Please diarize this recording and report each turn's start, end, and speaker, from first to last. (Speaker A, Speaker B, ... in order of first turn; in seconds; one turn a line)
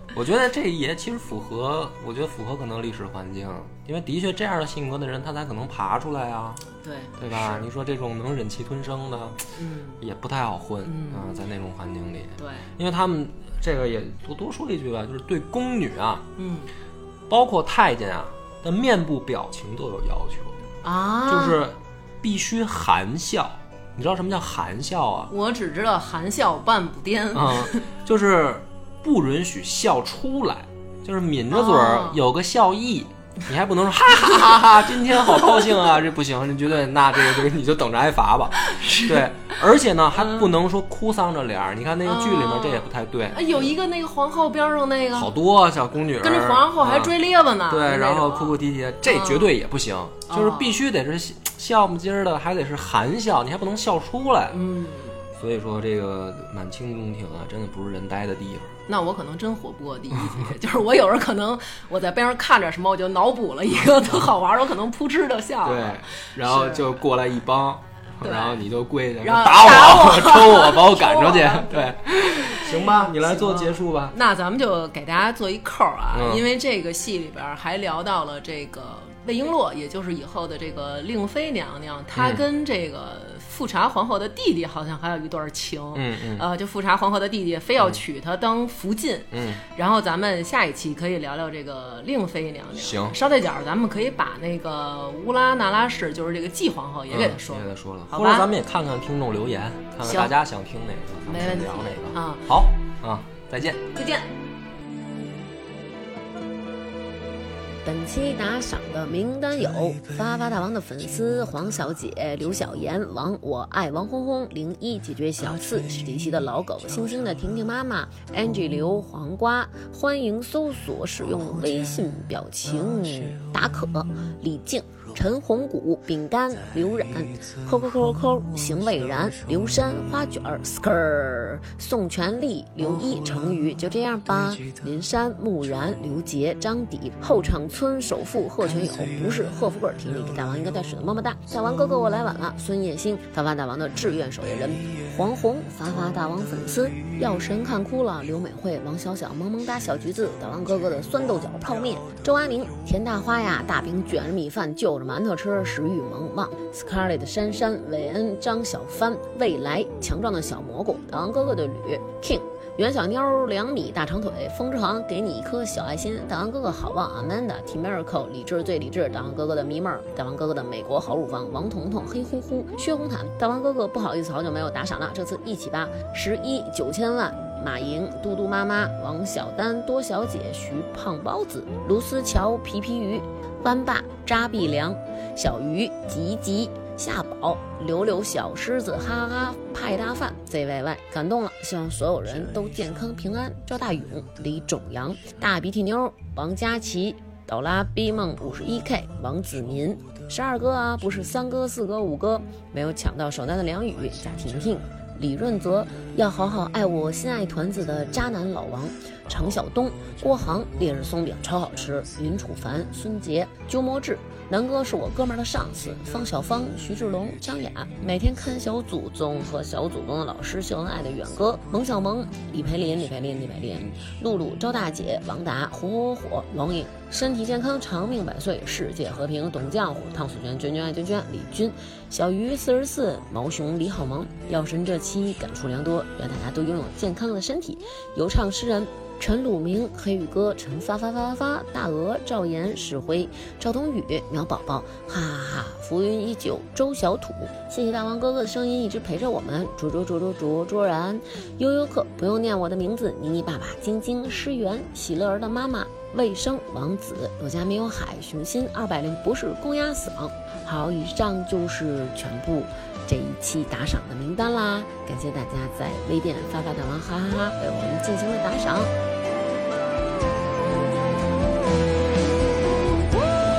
Speaker A: 0.1-6.6
Speaker B: 6.8-7.7
Speaker A: 7.2-16.3
Speaker B: 9.6-10.0
Speaker B: 10.8-11.3
Speaker B: 12.4-12.7
Speaker B: 16.4-16.7
Speaker A: 17.3-20.6
Speaker B: 20.8-21.6
Speaker A: 21.3-25.3
Speaker B: 25.3-27.9
Speaker A: 27.3-43.7
Speaker B: 31.5-32.2
Speaker B: 35.2-35.7
Speaker B: 38.6-39.5
Speaker B: 42.0-45.3
Speaker A: 45.1-47.1
Speaker B: 46.2-49.5
Speaker A: 47.7-54.6
Speaker B: 50.3-50.8
Speaker B: 54.5-55.2
Speaker A: 55.4-58.8
Speaker B: 58.9-67.0
Speaker A: 60.2-60.5
Speaker A: 65.6-74.2
Speaker B: 68.2-68.6
Speaker B: 69.2-98.5
Speaker A: 76.1-76.5
Speaker A: 82.2-82.4
Speaker A: 85.9-86.5
Speaker A: 89.3-89.6
Speaker A: 92.8-93.2
Speaker A: 97.1-103.8
Speaker B: 100.0-100.3
Speaker B: 101.3-102.5
Speaker B: 103.9-104.3
Speaker C: 107.8-268.9